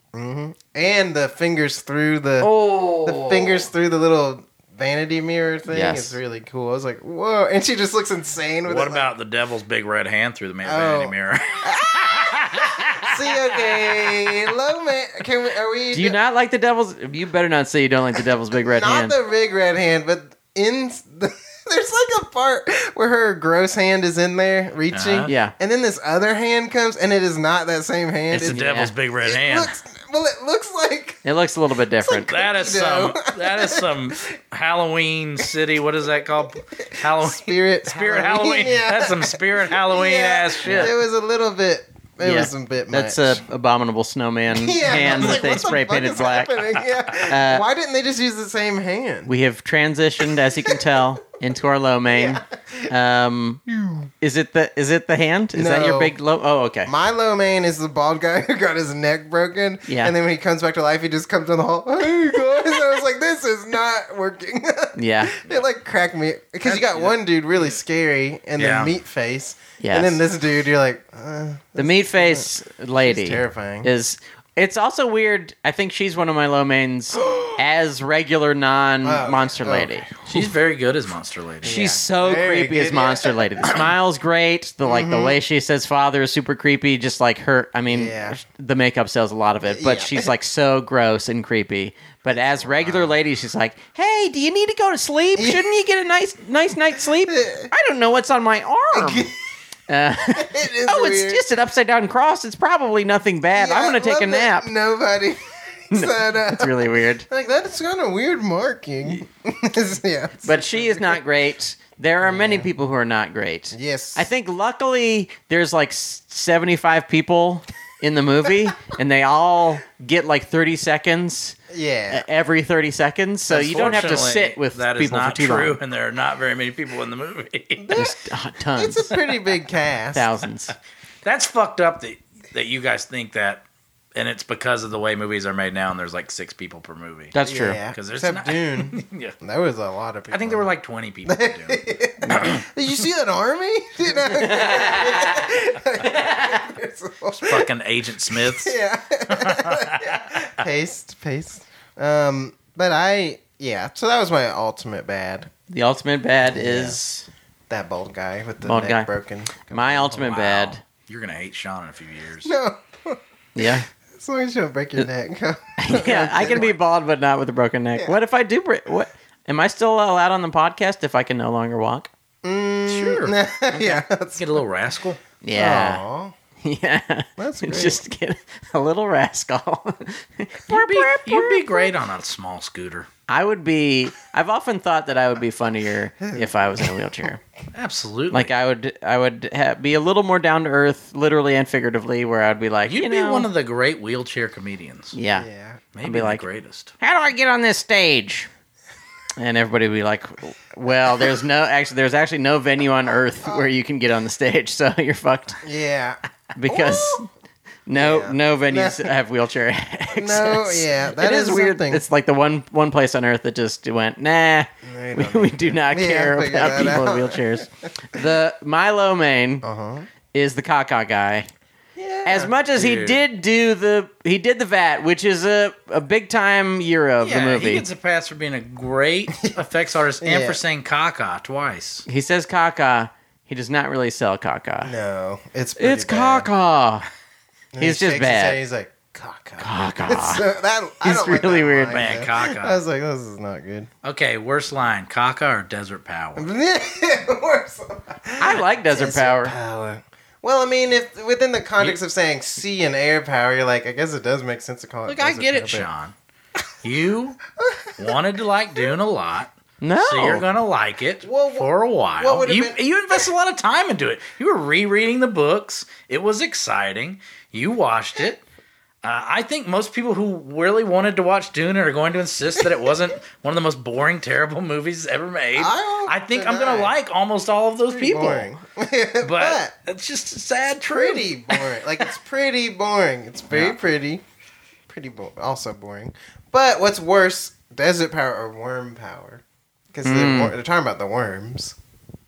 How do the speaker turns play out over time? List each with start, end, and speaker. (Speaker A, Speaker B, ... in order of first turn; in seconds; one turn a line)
Speaker A: 0.1-9.1
Speaker B: 2.4-3.6
Speaker B: 5.7-6.2
Speaker C: 8.7-14.4
Speaker A: 10.6-16.2
Speaker B: 15.9-19.1
Speaker A: 18.7-28.6
Speaker C: 24.9-25.3
Speaker B: 25.3-25.5
Speaker B: 28.3-28.9
Speaker C: 28.3-29.7
Speaker A: 29.2-31.2
Speaker B: 31.2-32.3
Speaker A: 32.0-34.2
Speaker C: 32.1-40.9
Speaker A: 36.7-43.4
Speaker B: 40.6-40.9
Speaker B: 42.2-46.6
Speaker A: 44.5-49.3
Speaker B: 47.2-47.6
Speaker B: 49.3-53.6
Speaker A: 50.5-51.0
Speaker A: 52.1-52.9
Speaker A: 53.7-54.1
Speaker B: 54.2-56.9
Speaker A: 55.5-56.2
Speaker A: 56.9-72.5
Speaker B: 59.9-60.1
Speaker B: 65.0-65.4
Speaker C: 66.7-67.1
Speaker C: 68.6-68.9
Speaker B: 69.8-70.2
Speaker B: 71.8-80.1
Speaker A: 73.0-73.9
Speaker A: 79.0-80.4
Speaker C: 80.3-81.8
Speaker A: 81.6-83.8
Speaker B: 81.6-99.3
Speaker A: 84.8-85.4
Speaker A: 87.9-88.4
Speaker A: 89.7-90.3
Speaker A: 92.7-93.2
Speaker A: 95.3-95.6
Speaker A: 97.2-97.7
Speaker A: 98.9-99.3
Speaker B: 99.9-104.7
Speaker A: 100.3-101.5
Speaker A: 103.5-111.2
Speaker B: 105.9-107.3
Speaker B: 110.4-121.6
Speaker A: 112.2-112.7
Speaker A: 113.7-114.3
Speaker A: 121.7-122.3
Speaker B: 122.1-125.8
Speaker C: 123.5-128.0
Speaker A: 123.7-124.0
Speaker A: 127.8-130.3
Speaker B: 128.0-129.1
Speaker B: 130.1-130.7
Speaker C: 131.2-133.6
Speaker C: 134.2-137.3
Speaker B: 137.3-137.8
Speaker A: 137.5-140.7
Speaker C: 137.9-139.3
Speaker C: 140.3-141.8
Speaker A: 141.3-147.7
Speaker B: 142.2-142.6
Speaker B: 144.2-146.7
Speaker C: 147.4-148.8
Speaker A: 148.3-155.5
Speaker C: 149.3-150.6
Speaker B: 155.7-157.3
Speaker A: 156.5-157.0
Speaker A: 157.7-160.0
Speaker B: 158.6-159.1
Speaker B: 159.7-160.8
Speaker C: 159.9-162.5
Speaker A: 162.4-166.7
Speaker B: 163.6-163.9
Speaker B: 165.8-172.1
Speaker C: 166.3-166.8
Speaker A: 172.4-174.6
Speaker C: 172.9-175.2
Speaker B: 175.4-176.0
Speaker A: 175.5-176.3
Speaker B: 176.6-181.9
Speaker A: 177.4-178.0
Speaker C: 180.7-183.1
Speaker B: 183.3-187.4
Speaker A: 186.3-187.0
Speaker C: 187.7-188.5
Speaker B: 188.3-193.5
Speaker C: 192.8-195.2
Speaker B: 195.1-195.5
Speaker A: 195.3-195.8
Speaker C: 195.9-196.9
Speaker B: 196.0-196.5
Speaker B: 197.0-198.5
Speaker B: 199.4-205.6
Speaker A: 203.4-203.7
Speaker A: 205.6-207.3
Speaker B: 206.6-207.3
Speaker B: 207.9-219.6
Speaker A: 208.0-209.2
Speaker A: 210.1-212.0
Speaker A: 214.8-217.9
Speaker A: 219.6-220.1
Speaker B: 220.3-221.5
Speaker A: 222.0-222.5
Speaker B: 222.2-227.9
Speaker C: 222.8-223.2
Speaker C: 227.2-232.1
Speaker A: 230.2-230.6
Speaker B: 232.1-234.9
Speaker A: 234.8-236.5
Speaker B: 235.8-237.1
Speaker A: 237.7-243.9
Speaker B: 237.8-238.6
Speaker B: 239.6-240.4
Speaker B: 241.0-242.0
Speaker C: 241.9-242.8
Speaker C: 244.0-246.5
Speaker A: 246.4-255.9
Speaker B: 248.4-249.5
Speaker C: 255.1-256.1
Speaker C: 256.8-257.4
Speaker A: 257.6-257.9
Speaker C: 258.0-268.4
Speaker B: 259.8-260.5
Speaker A: 261.2-263.3
Speaker C: 269.0-278.5
Speaker A: 275.6-276.9
Speaker A: 277.9-279.7
Speaker C: 279.2-281.6
Speaker A: 280.9-284.2
Speaker A: 284.9-291.8
Speaker B: 290.0-290.6